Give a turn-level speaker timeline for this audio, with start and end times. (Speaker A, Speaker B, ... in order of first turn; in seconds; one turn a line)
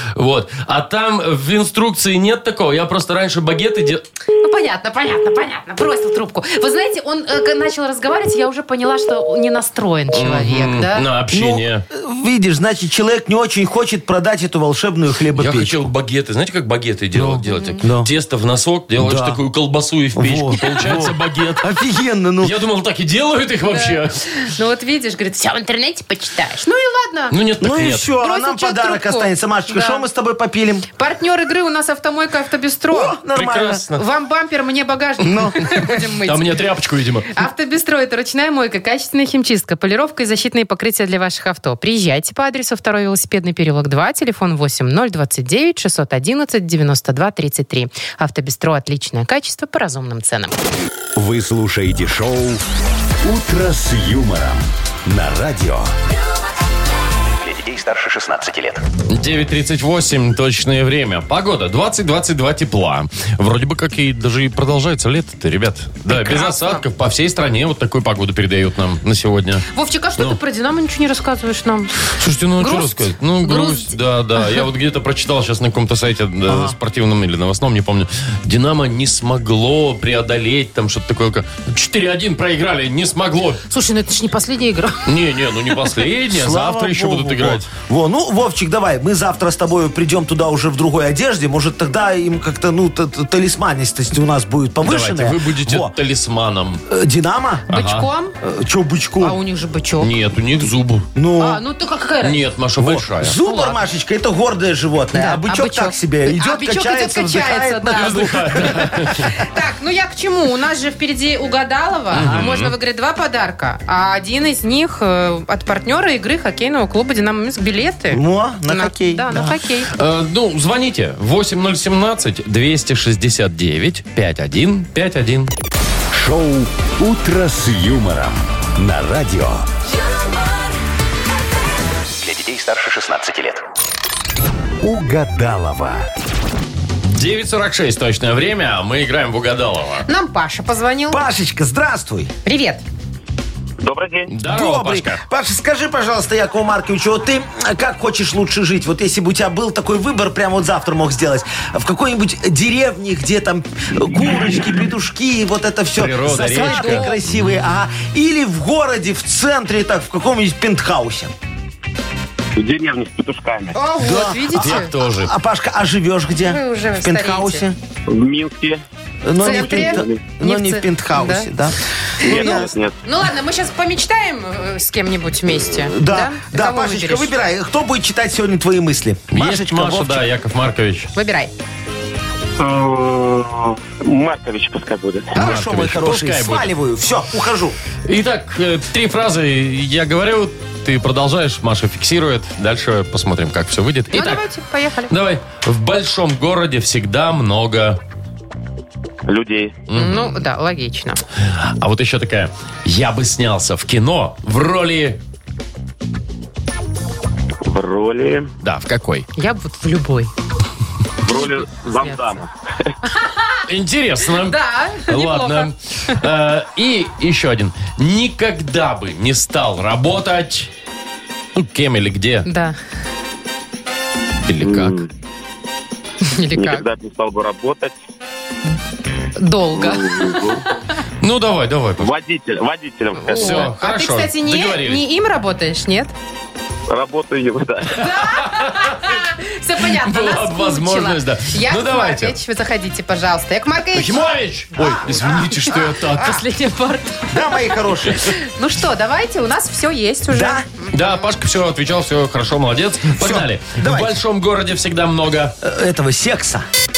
Speaker A: 0.1-4.0
Speaker B: 4.4-11.1
Speaker A: 10.1-11.8
Speaker C: 11.3-15.7
Speaker A: 15.3-21.8
Speaker C: 17.1-18.1
Speaker B: 17.4-17.8
Speaker C: 19.0-19.4
Speaker C: 20.1-22.6
Speaker A: 22.4-24.2
Speaker B: 23.6-27.4
Speaker A: 27.3-28.1
Speaker C: 27.6-30.9
Speaker B: 28.2-30.0
Speaker B: 30.9-33.2
Speaker C: 32.9-33.9
Speaker A: 33.3-34.0
Speaker B: 33.9-36.6
Speaker C: 35.2-35.9
Speaker A: 36.2-37.3
Speaker B: 37.3-50.5
Speaker D: 51.1-52.6
Speaker D: 53.2-55.9
Speaker E: 57.4-58.8
Speaker A: 59.1-69.7
Speaker B: 66.1-66.8
Speaker B: 69.7-74.0
Speaker A: 72.0-83.6
Speaker C: 76.5-76.7
Speaker B: 83.7-85.1
Speaker A: 85.0-87.7
Speaker C: 86.3-95.9
Speaker A: 94.8-96.8
Speaker C: 96.9-97.7
Speaker B: 97.7-98.3
Speaker A: 97.7-98.1
Speaker C: 98.4-99.4
Speaker B: 99.2-100.1
Speaker A: 100.0-101.1
Speaker C: 101.1-101.6
Speaker B: 101.4-102.4
Speaker A: 102.2-103.4
Speaker C: 102.8-109.3
Speaker B: 103.4-103.8
Speaker B: 105.1-108.6
Speaker A: 107.9-109.3
Speaker B: 109.2-119.9
Speaker C: 112.1-112.5
Speaker A: 112.1-112.7
Speaker C: 118.1-119.6
Speaker A: 119.9-125.5
Speaker D: 126.1-129.7
Speaker E: 132.2-133.6
Speaker D: 134.8-136.1
Speaker A: 137.0-140.1
Speaker B: 140.1-141.2
Speaker C: 141.1-142.3
Speaker B: 142.4-142.8
Speaker F: 143.8-144.3
Speaker A: 144.3-145.2
Speaker C: 144.5-161.3
Speaker A: 155.9-157.5
Speaker B: 156.3-157.2
Speaker F: 162.6-163.8
Speaker B: 163.7-164.9
Speaker C: 164.0-167.8
Speaker A: 164.5-165.3
Speaker B: 166.4-167.6
Speaker F: 168.1-168.8
Speaker C: 169.2-172.7
Speaker B: 169.4-171.5
Speaker F: 169.4-170.2
Speaker F: 172.2-172.9
Speaker B: 172.2-177.3
Speaker C: 175.7-180.2
Speaker A: 179.3-181.1
Speaker B: 181.1-181.5
Speaker F: 182.6-185.4
Speaker A: 185.3-186.7
Speaker C: 185.3-187.8
Speaker A: 188.1-194.4
Speaker B: 194.1-195.1
Speaker A: 195.1-198.0
Speaker F: 199.2-199.8
Speaker A: 199.9-200.4
Speaker B: 199.9-201.2
Speaker A: 201.4-205.2
Speaker F: 207.6-208.5
Speaker A: 208.6-209.3
Speaker B: 209.3-210.3
Speaker F: 211.2-212.9
Speaker B: 211.3-212.2
Speaker B: 213.0-213.7
Speaker A: 213.7-220.7
Speaker B: 214.3-216.2
Speaker A: 221.5-222.5
Speaker B: 222.4-222.8
Speaker A: 224.4-225.1
Speaker F: 224.6-225.1
Speaker B: 226.2-226.8
Speaker F: 226.5-227.9
Speaker B: 229.4-230.8
Speaker F: 229.8-230.6
Speaker A: 231.2-232.1
Speaker F: 232.0-233.7
Speaker B: 233.1-236.1
Speaker A: 233.3-235.0
Speaker F: 236.9-238.1
Speaker B: 237.9-251.2
Speaker A: 238.1-239.1
Speaker A: 239.8-242.3
Speaker A: 243.9-246.4
Speaker C: 244.8-245.5
Speaker C: 247.3-248.4
Speaker C: 250.3-250.6
Speaker A: 250.9-255.6
Speaker C: 253.2-254.1
Speaker C: 255.6-256.6